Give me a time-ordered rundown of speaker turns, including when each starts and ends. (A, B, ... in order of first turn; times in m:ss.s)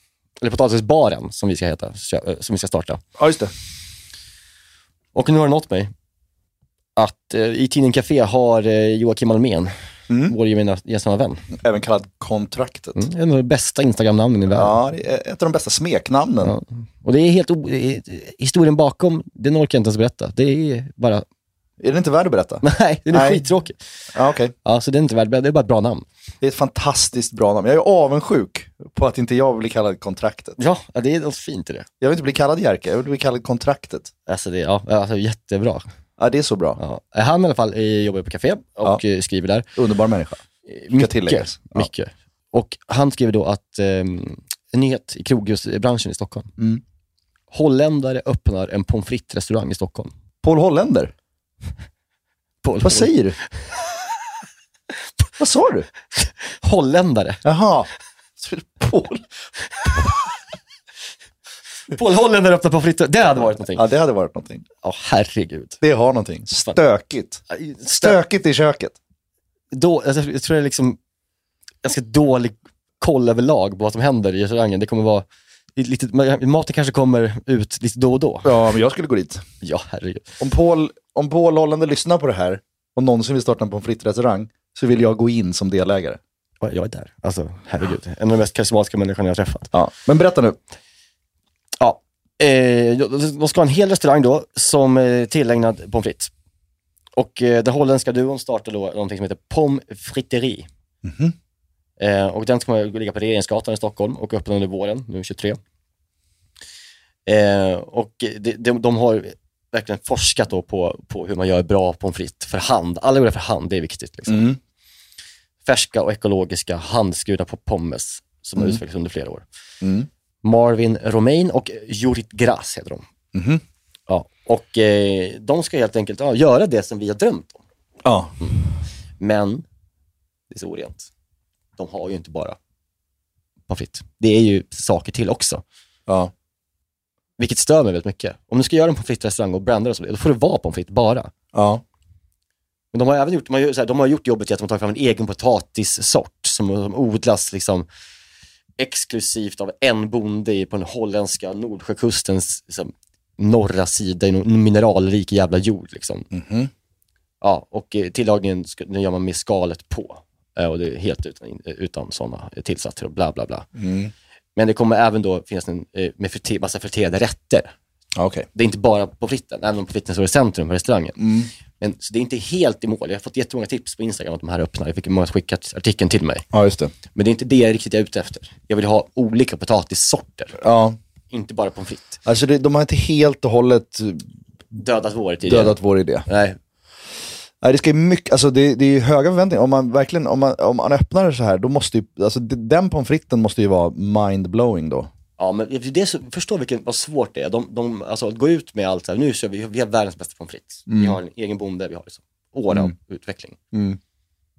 0:00.4-0:03.0 A
0:03.2-0:03.5 B
0:05.1-0:05.9 A
0:07.0-0:09.7 A
0:10.1-0:10.3 B
0:10.2-0:11.4 A
0:11.5-0:13.0 B
0:12.9-0:14.8 A
0:14.5-0:16.5 B
0:16.4-0:21.2 A
0:21.8-0:23.5 B
0:22.6-0:23.8 A
0:24.1-0:24.5 B
0:24.6-0:26.0 A
0:26.4-0:30.6 B
0:30.6-0:31.9 A
0:32.0-0:34.1 B
0:34.3-0:35.8 A
0:36.2-0:36.8 B
0:36.8-0:39.7 A
0:39.8-0:41.9 B
0:40.7-0:46.5 A
0:47.5-0:50.1 A
0:50.4-0:51.1 B
0:52.6-0:53.1 A
0:52.8-0:53.4 B
0:55.4-0:55.9 B
0:56.2-0:57.4 A
0:57.4-0:59.3 B
0:59.8-1:00.1 B
1:01.9-1:03.8 A
1:03.7-1:04.6 B
1:04.8-1:05.8 A
1:05.8-1:09.0 B
1:07.5-1:08.2 A
1:09.7-1:11.0 A
1:11.8-1:15.2 A
1:15.8-1:18.5 A
1:18.4-1:19.4 B
1:19.6-1:20.3 A
1:20.4-1:26.2 B
1:26.6-1:29.7 A
1:29.7-1:30.6 B
1:31.8-1:36.3 A
1:37.1-1:40.7 A
1:41.0-1:41.3 B
1:42.0-1:45.6 A
1:47.2-1:54.4 A
1:54.3-1:54.6 B
1:55.6-1:59.4 A
1:59.8-2:00.1 B
2:00.4-2:03.1 A
2:03.3-2:03.6 B
2:04.1-2:07.6 A
2:08.0-2:08.4 B
2:09.2-2:09.6 A
2:10.5-2:11.1 A
2:11.8-2:12.6 A
2:13.7-2:15.6 A
2:16.1-2:16.3 B
2:17.4-2:21.3 A
2:21.5-2:21.8 B
2:22.9-2:27.9 A
2:28.8-2:36.3 A
2:36.3-2:36.7 B
2:37.4-2:43.7 A
2:43.7-2:44.1 B
2:44.6-2:47.7 A
2:48.2-2:48.5 B
2:48.5-2:51.2 A
2:51.2-2:51.5 B
2:51.8-2:56.4 A
2:56.5-2:56.9 B
2:57.1-3:00.6 A
3:00.6-3:01.0 B
3:01.3-3:02.2 A
3:02.2-3:04.2 B
3:04.7-3:06.6 A
3:05.4-3:06.3 B
3:07.6-3:15.1 B
3:15.4-3:23.6 A
3:20.9-3:21.2 B
3:23.7-3:24.0 B